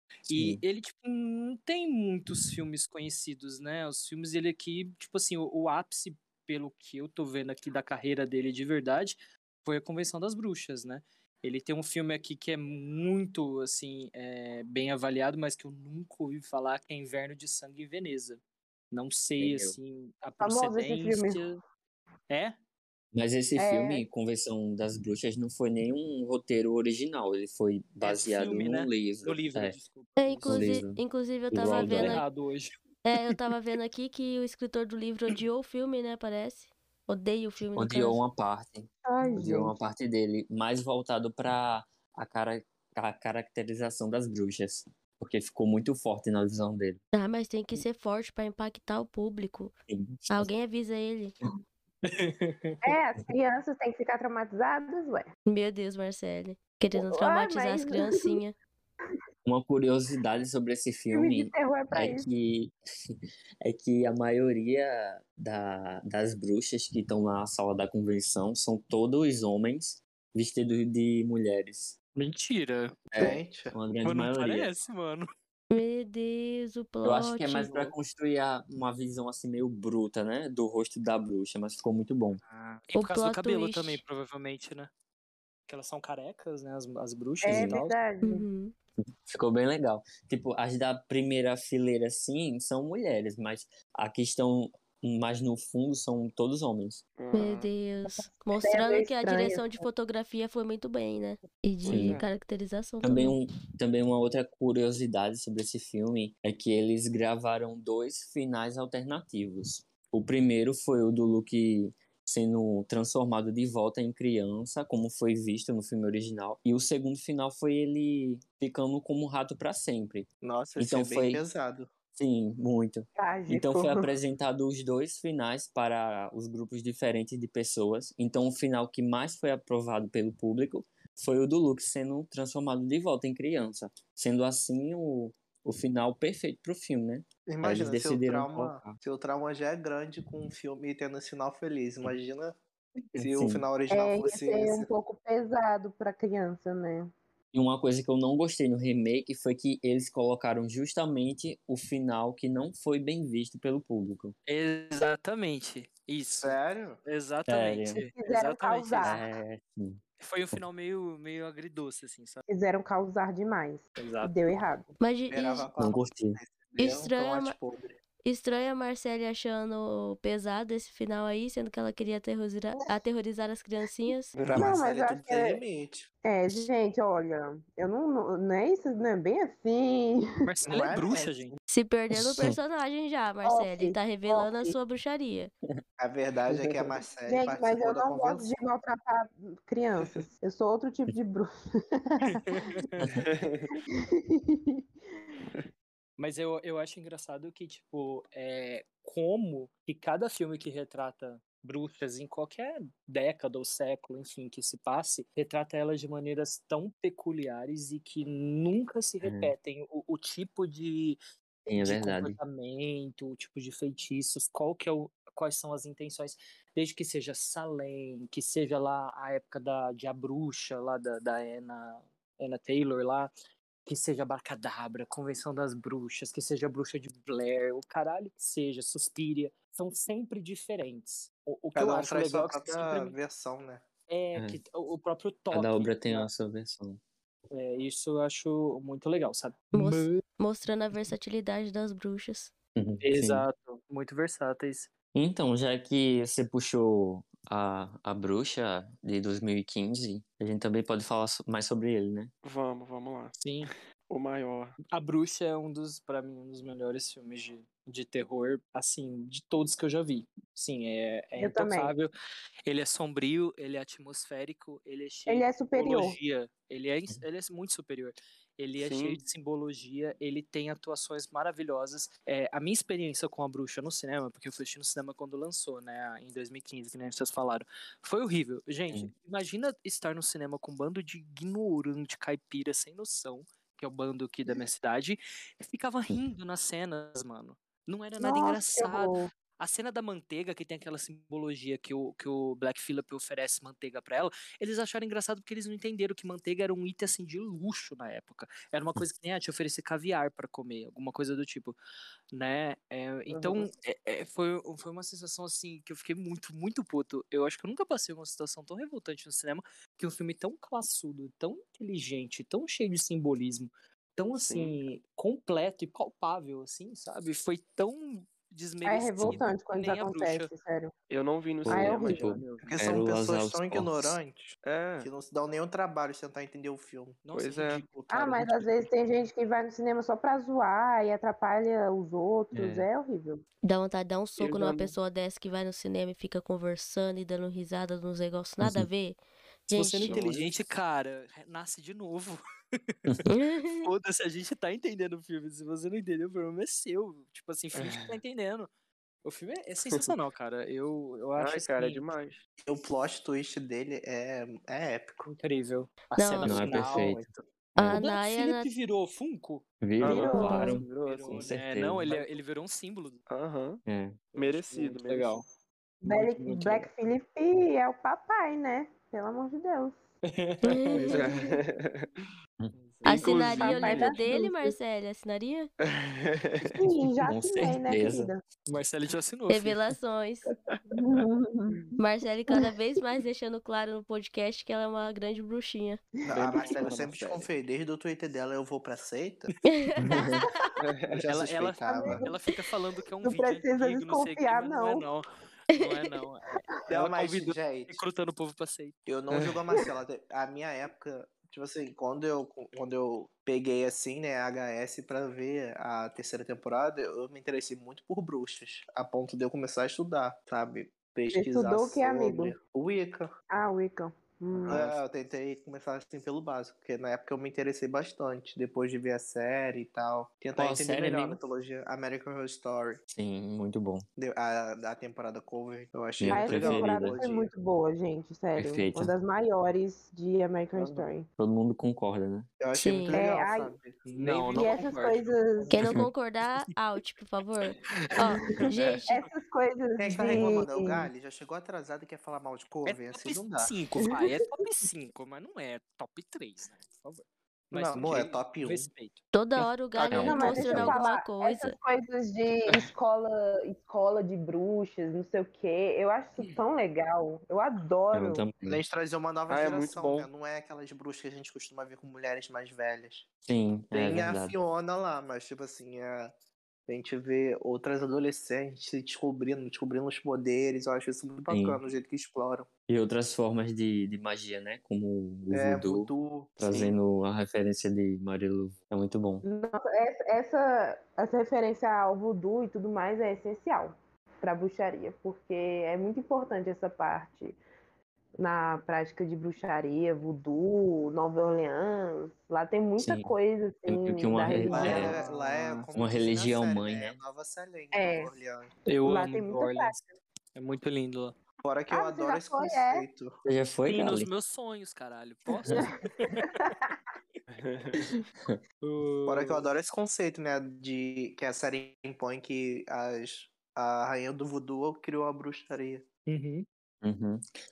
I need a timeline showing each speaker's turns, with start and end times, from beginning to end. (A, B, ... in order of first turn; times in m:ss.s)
0:00.3-0:18.4 A
0:00.3-0:00.6 B
0:18.9-0:21.6 A
0:19.4-0:19.8 B
0:20.4-0:21.4 C
0:23.1-0:29.8 B
0:23.6-0:24.0 C
0:28.0-0:30.8 A
0:30.2-0:32.2 D
0:30.4-0:32.2 B
0:31.7-0:33.4 A
0:33.0-0:38.2 D
0:37.8-0:47.0 B
0:39.0-0:39.7 C
0:47.1-0:49.7 D
0:49.9-0:50.5 B
0:50.3-0:51.3 D
0:52.0-0:52.8 A
0:52.8-0:55.3 C
0:55.5-0:58.5 D
0:56.9-0:58.4 C
0:59.4-1:02.7 B
1:01.1-1:02.2 C
1:03.6-1:12.0 B
1:12.2-1:13.0 A
1:13.1-1:14.7 B
1:13.2-1:13.7 E
1:14.0-1:15.3 A
1:15.7-1:17.9 D
1:17.0-1:22.4 B
1:22.5-1:24.9 A
1:22.9-1:24.0 D
1:25.7-1:28.0 A
1:27.4-1:28.4 C
1:27.5-1:27.8 B
1:28.2-1:28.7 D
1:29.0-1:37.0 B
1:37.2-1:37.7 F
1:37.3-1:43.4 D
1:38.3-1:39.8 C
1:41.8-1:42.2 F
1:41.9-1:42.2 B
1:43.0-2:01.4 B
2:00.4-2:01.9 E
2:02.1-2:19.0 B
2:03.2-2:04.1 C
2:17.5-2:22.6 E
2:23.2-2:23.6 B
2:23.2-2:24.9 E
2:23.9-2:27.1 C
2:27.5-2:34.3 B
2:34.5-2:39.2 A
2:36.4-2:37.0 E
2:37.5-2:38.0 B
2:38.1-2:39.2 C
2:39.0-2:40.0 B
2:40.2-2:42.4 A
2:42.5-2:44.9 C
2:44.0-2:44.3 A
2:45.0-2:45.7 D
2:45.3-2:47.9 E
2:45.8-2:46.4 B
2:46.8-2:47.5 D
2:48.2-2:54.3 D
2:54.4-2:54.7 F
2:54.4-2:56.1 E
2:54.6-2:55.6 C
2:56.2-3:00.9 C
3:00.4-3:01.6 A
3:00.7-3:01.3 E
3:01.7-3:05.5 D
3:02.1-3:02.6 B
3:03.4-3:04.7 C
3:06.0-3:08.5 E
3:06.5-3:06.9 F
3:07.3-3:12.8 C
3:12.3-3:12.9 A
3:13.0-3:13.2 B
3:13.2-3:13.7 F
3:13.9-3:15.4 C
3:16.2-3:31.2 A
3:29.2-3:29.5 B
3:31.6-3:32.4 B
3:31.8-3:43.3 A
3:43.8-3:53.1 A
3:51.7-3:53.8 E
3:54.1-3:56.3 A
3:55.5-3:57.0 B
3:57.5-4:00.2 A
3:59.7-4:02.5 D
4:02.8-4:03.4 B
4:03.0-4:04.9 A
4:05.1-4:12.3 B
4:12.4-4:13.3 F
4:13.4-4:13.7 A
4:14.1-4:14.7 F
4:14.9-4:22.1 A
4:21.4-4:21.9 C
4:22.6-5:01.8 A
4:25.3-4:26.2 C
4:28.8-4:29.2 F
4:48.2-4:49.3 C
5:02.3-5:20.5 A
5:03.3-5:03.7 C
5:14.4-5:14.8 F
5:18.8-5:20.9 C
5:19.2-5:19.4 B
5:21.1-5:22.7 F
5:21.6-5:24.2 B
5:21.7-5:22.4 C
5:22.6-5:27.2 E
5:24.6-5:25.1 F
5:27.2-5:28.7 A
5:27.3-5:28.5 F
5:28.1-5:33.4 C
5:32.5-5:32.9 B
5:33.6-5:40.3 D
5:34.4-5:35.0 F
5:38.6-5:38.9 B
5:39.7-5:43.0 A
5:40.0-5:40.6 F
5:43.3-5:43.9 D
5:43.8-5:48.7 A
5:47.7-5:48.2 F
5:49.2-5:52.1 A
5:51.4-5:52.4 F
5:52.6-5:55.3 E
5:55.2-5:57.2 A
5:56.1-5:56.6 D
5:56.4-5:57.2 B
5:56.6-5:57.2 E
5:57.8-5:58.0 B
5:57.8-5:58.7 D
5:57.9-6:03.2 A
5:59.8-6:02.2 B
6:00.0-6:01.5 F
6:00.0-6:00.7 C
6:00.3-6:00.8 D
6:03.3-6:03.8 F
6:03.8-6:04.2 B
6:04.3-6:05.4 F
6:04.3-6:05.4 A
6:06.0-6:10.0 C
6:06.1-6:06.9 A
6:10.3-6:11.2 A
6:10.6-6:11.2 D
6:11.0-6:12.1 F
6:12.8-6:14.0 A
6:13.0-6:14.2 F
6:13.0-6:15.7 D
6:13.2-6:14.7 C
6:15.8-6:16.9 F
6:16.6-6:18.4 C
6:17.2-6:18.3 B
6:18.7-6:20.0 A
6:19.5-6:20.5 D
6:20.7-6:21.0 F
6:20.9-6:21.9 C
6:22.0-6:26.0 D
6:26.2-6:26.8 C
6:26.2-6:29.5 E
6:26.3-6:27.5 F
6:29.6-6:30.7 D
6:30.8-6:31.2 F
6:31.1-6:32.2 E
6:31.3-6:39.0 A
6:31.8-6:32.4 C
6:33.2-6:35.0 C
6:36.9-6:38.0 E
6:39.0-6:53.3 E
6:51.3-6:52.5 C
6:53.5-6:54.9 C
6:54.7-7:03.0 E
7:00.6-7:01.4 B
7:03.1-7:04.0 B
7:04.2-7:07.5 E
7:06.2-7:07.2 B
7:06.3-7:11.2 C
7:08.6-7:09.1 B
7:10.8-7:11.0 F
7:11.4-7:12.5 B
7:12.6-7:14.0 E
7:12.7-7:13.2 D
7:13.1-7:13.8 C
7:14.0-7:16.0 A
7:14.2-7:14.9 F
7:14.5-7:15.8 C
7:15.7-7:19.1 D
7:18.2-7:21.1 C
7:20.0-7:23.7 E
7:22.8-7:29.6 A
7:27.7-7:28.9 E
7:29.3-7:31.8 D
7:30.0-7:30.3 F
7:30.1-7:31.0 B
7:30.1-7:38.4 C
7:38.1-7:38.8 B
7:38.6-7:43.2 E
7:39.5-7:40.3 F
7:43.5-7:44.6 B
7:43.9-7:46.3 E
7:46.9-7:52.7 E
7:51.5-7:51.8 B
7:52.9-7:59.4 B
7:55.5-7:57.0 E
7:59.4-8:07.6 C
8:08.4-8:15.2 C
8:13.0-8:13.3 B
8:13.8-8:15.1 B
8:14.5-8:15.9 A
8:14.6-8:18.7 E
8:16.0-8:17.2 B
8:17.9-8:18.3 C
8:18.9-8:20.0 A
8:19.0-8:20.1 C
8:20.6-8:21.3 A
8:21.6-8:23.4 E
8:21.9-8:23.0 C
8:23.4-8:24.3 B
8:23.9-8:26.7 A
8:25.7-8:26.9 C
8:27.5-8:28.1 F
8:28.8-8:29.7 A
8:29.3-8:36.0 E
8:36.3-8:36.6 A
8:37.0-8:37.4 B